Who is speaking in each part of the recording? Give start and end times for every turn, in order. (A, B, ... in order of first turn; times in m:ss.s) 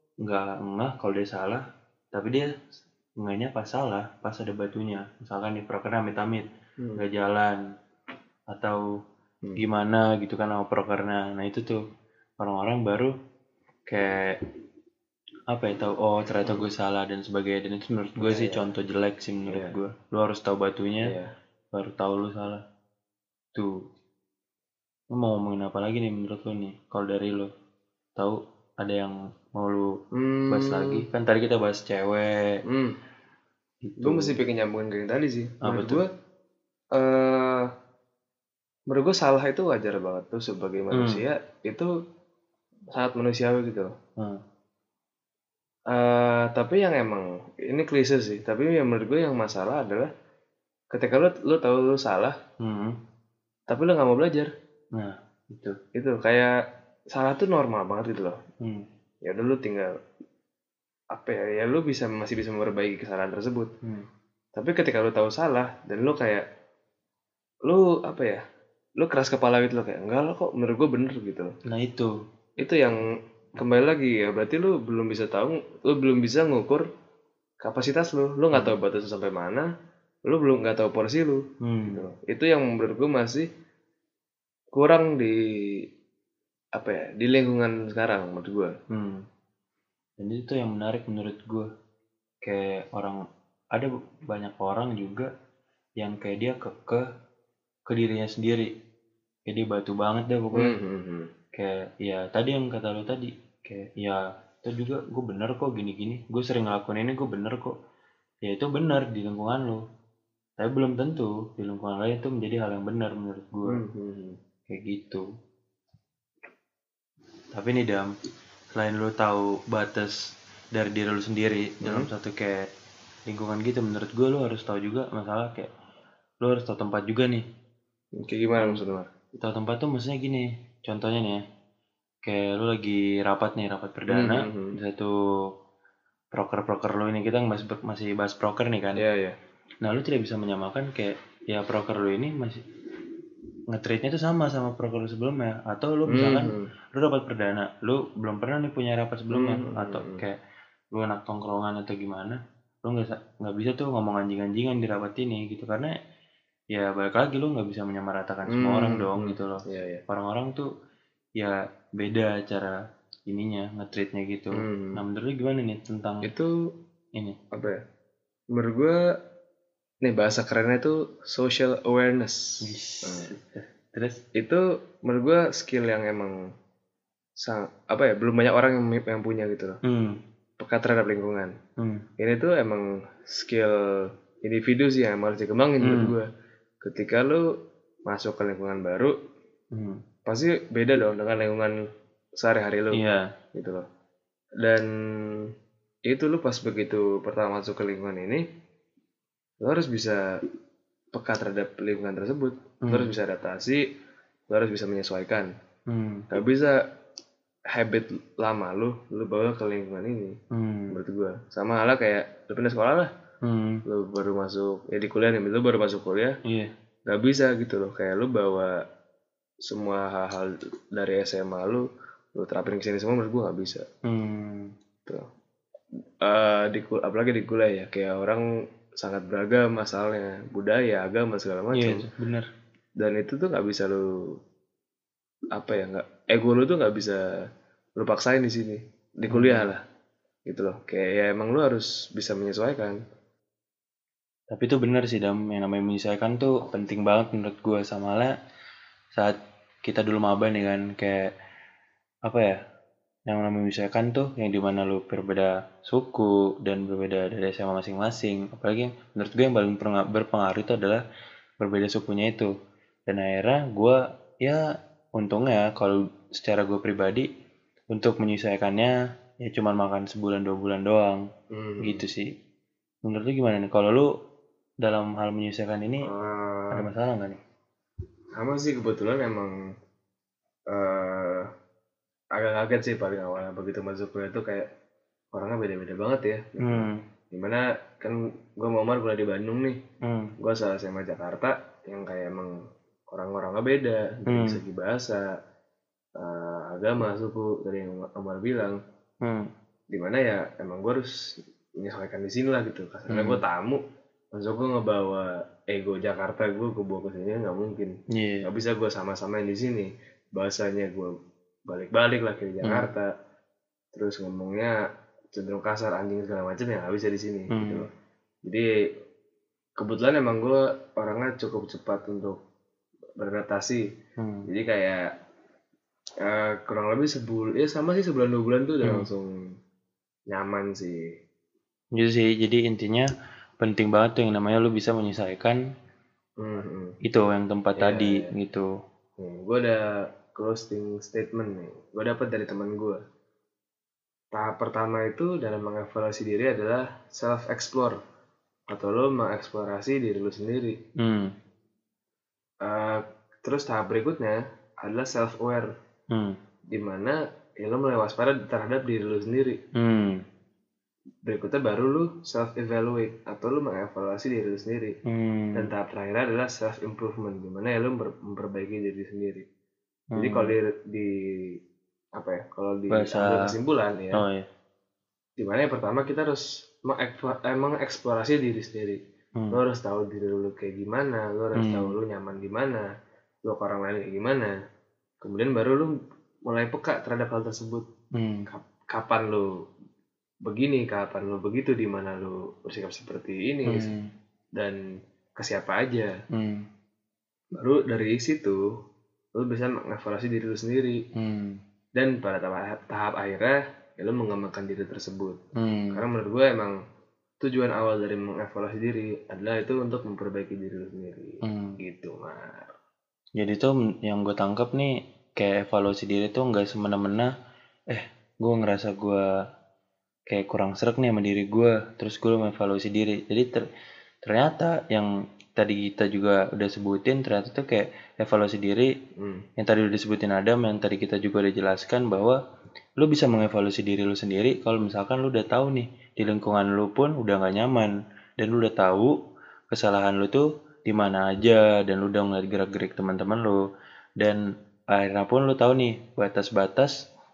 0:00.2-0:02.5 A
0:03.2-0:07.6 A
0:08.5-0:08.9 A
0:09.6-0:11.8 A
0:12.4-0:13.2 A
0:13.9-0:14.4 A
0:15.5-0:21.2 A
0:18.2-0:18.7 B
0:19.5-0:19.8 B
0:21.0-0:21.3 B
0:21.7-0:22.6 A
0:23.6-0:23.8 A
0:25.1-0:27.5 A
0:28.2-0:32.6 A
0:30.1-0:31.0 B
0:32.7-0:33.0 B
0:33.8-0:34.4 A
0:34.0-0:36.1 B
0:35.6-0:36.0 A
0:36.9-0:37.7 B
0:38.9-0:41.9 B
0:40.9-0:41.2 A
0:42.9-0:43.9 B
0:45.9-0:50.1 B
0:50.9-0:52.4 B
0:52.6-0:53.0 A
0:53.7-0:54.5 B
0:54.9-0:55.8 A
0:56.0-0:56.5 B
0:57.1-0:58.4 B
0:58.6-0:58.9 A
0:59.2-0:59.9 B
1:01.1-1:03.7 B
1:04.6-1:06.4 B
1:07.7-1:08.4 B
1:09.0-1:11.5 B
1:11.7-1:12.1 A
1:12.6-1:13.0 B
1:13.6-1:16.9 B
1:17.6-1:19.7 B
1:20.3-1:23.5 B
1:21.6-1:22.1 A
1:24.7-1:25.8 B
1:26.8-1:28.7 B
1:28.9-1:29.3 A
1:30.2-1:31.7 A
1:32.4-1:33.2 A
1:33.7-1:35.3 A
1:36.0-1:37.0 A
1:37.9-1:38.7 A
1:39.5-1:40.8 A
1:40.5-1:41.3 B
1:41.5-1:47.8 A
1:48.4-1:49.8 A
1:50.6-1:53.8 A
1:53.7-1:54.4 B
1:54.7-1:55.3 A
1:57.5-1:58.1 A
1:58.7-2:00.2 A
2:00.7-2:02.7 A
2:01.8-2:02.1 B
2:03.3-2:05.7 A
2:06.4-2:07.4 A
2:08.2-2:09.1 B
2:09.4-2:11.4 A
2:12.2-2:15.5 A
2:14.1-2:14.8 B
2:16.3-2:19.0 A
2:19.0-2:19.4 B
2:19.8-2:22.6 A
2:23.7-2:30.4 A
2:26.1-2:26.7 B
2:29.3-2:30.2 B
2:30.9-2:35.9 A
2:36.7-2:40.7 A
2:38.5-2:40.0 B
2:41.4-2:42.8 A
2:43.3-2:46.3 A
2:44.5-2:45.0 B
2:46.2-2:46.6 B
2:47.2-2:47.4 A
2:47.5-2:47.8 B
2:48.5-2:49.0 B
2:50.0-2:53.3 B
2:52.6-2:54.2 A
2:54.4-2:56.4 B
2:57.4-2:59.8 B
2:59.8-3:00.2 A
3:00.6-3:01.5 B
3:01.8-3:02.1 A
3:02.2-3:06.3 B
3:05.8-3:06.1 A
3:06.8-3:07.4 B
3:08.1-3:09.1 B
3:09.7-3:10.0 A
3:10.3-3:11.8 B
3:12.4-3:13.0 B
3:12.9-3:13.3 A
3:13.6-3:13.8 B
3:14.6-3:15.5 B
3:16.1-3:18.4 B
3:19.6-3:20.3 B
3:21.1-3:23.8 B
3:22.8-3:23.1 A
3:24.5-3:25.5 B
3:25.9-3:26.3 A
3:26.3-3:26.8 B
3:27.7-3:30.4 B
3:30.5-3:31.0 A
3:30.9-3:33.1 B
3:33.4-3:33.8 A
3:33.9-3:36.4 B
3:36.4-3:36.7 A
3:37.1-3:38.8 B
3:39.6-3:43.8 B
3:44.0-3:44.7 A
3:46.2-3:48.4 B
3:49.0-3:52.0 B
3:51.7-3:52.5 A
3:53.0-3:54.1 B
3:55.5-3:57.2 B
3:58.0-3:59.8 B
3:59.3-3:59.7 A
4:00.5-4:03.0 B
4:04.5-4:08.3 A
4:09.2-4:11.3 A
4:12.2-4:12.6 A
4:13.3-4:21.0 A
4:21.6-4:22.5 A
4:23.1-4:24.6 A
4:25.2-4:27.3 A
4:27.9-4:31.3 A
4:31.5-4:32.0 B
4:31.8-4:32.3 A
4:33.0-4:34.1 A
4:34.8-4:36.1 A
4:36.0-4:36.9 B
4:36.7-4:37.4 A
4:38.4-4:39.6 B
4:40.7-4:41.5 B
4:42.4-4:44.7 B
4:45.3-4:49.8 B
4:46.6-4:47.0 A
4:50.0-4:50.3 A
4:50.4-4:52.5 B
4:53.1-4:55.3 B
4:54.3-4:54.6 A
4:56.2-4:58.8 B
4:59.2-4:59.5 A
4:59.9-5:03.8 B
5:03.1-5:03.4 A
5:04.3-5:11.2 B
5:08.1-5:08.5 A
5:11.7-5:13.1 B
5:12.6-5:12.9 A
5:13.9-5:14.8 B
5:15.3-5:17.9 B
5:17.5-5:17.9 A
5:18.4-5:18.7 B
5:19.8-5:22.4 B
5:23.2-5:23.8 B
5:24.2-5:24.5 A
5:24.5-5:25.1 B
5:26.2-5:29.5 B
5:28.8-5:29.1 A
5:30.3-5:31.1 B
5:32.0-5:35.6 A
5:36.4-5:37.0 B
5:37.0-5:38.7 A
5:37.8-5:38.3 B
5:39.2-5:43.0 B
5:44.3-5:48.0 B
5:48.7-5:50.8 B
5:51.0-5:51.4 A
5:52.6-5:55.7 B
5:56.1-5:56.4 A
5:56.7-5:59.6 B
5:59.8-6:00.2 A
6:01.2-6:05.0 B
6:05.1-6:05.7 A
6:05.6-6:09.5 B
6:10.1-6:10.6 A
6:10.2-6:11.6 B
6:12.2-6:14.2 B
6:12.9-6:13.5 A
6:14.1-6:14.5 A
6:15.4-6:19.0 B
6:19.5-6:22.9 B
6:21.6-6:22.0 A
6:23.4-6:24.6 B
6:25.2-6:25.9 B
6:26.5-6:27.9 B
6:28.2-6:28.5 A
6:28.5-6:29.5 B
6:30.5-6:33.9 B
6:33.7-6:34.1 A
6:34.6-6:34.8 B
6:35.4-6:36.1 B
6:36.3-6:36.7 A
6:37.6-6:38.7 B
6:39.4-6:41.0 B
6:41.2-6:41.6 A
6:42.0-6:45.4 B
6:45.6-6:46.0 A
6:45.9-6:46.8 B
6:47.4-6:52.7 B
6:51.4-6:51.8 A
6:53.4-6:57.3 A
6:57.9-6:59.3 A
7:00.3-7:03.6 A
7:04.2-7:08.9 A
7:09.2-7:09.4 B
7:09.6-7:12.4 A
7:13.0-7:19.1 A
7:19.7-7:23.6 A
7:24.9-7:27.0 A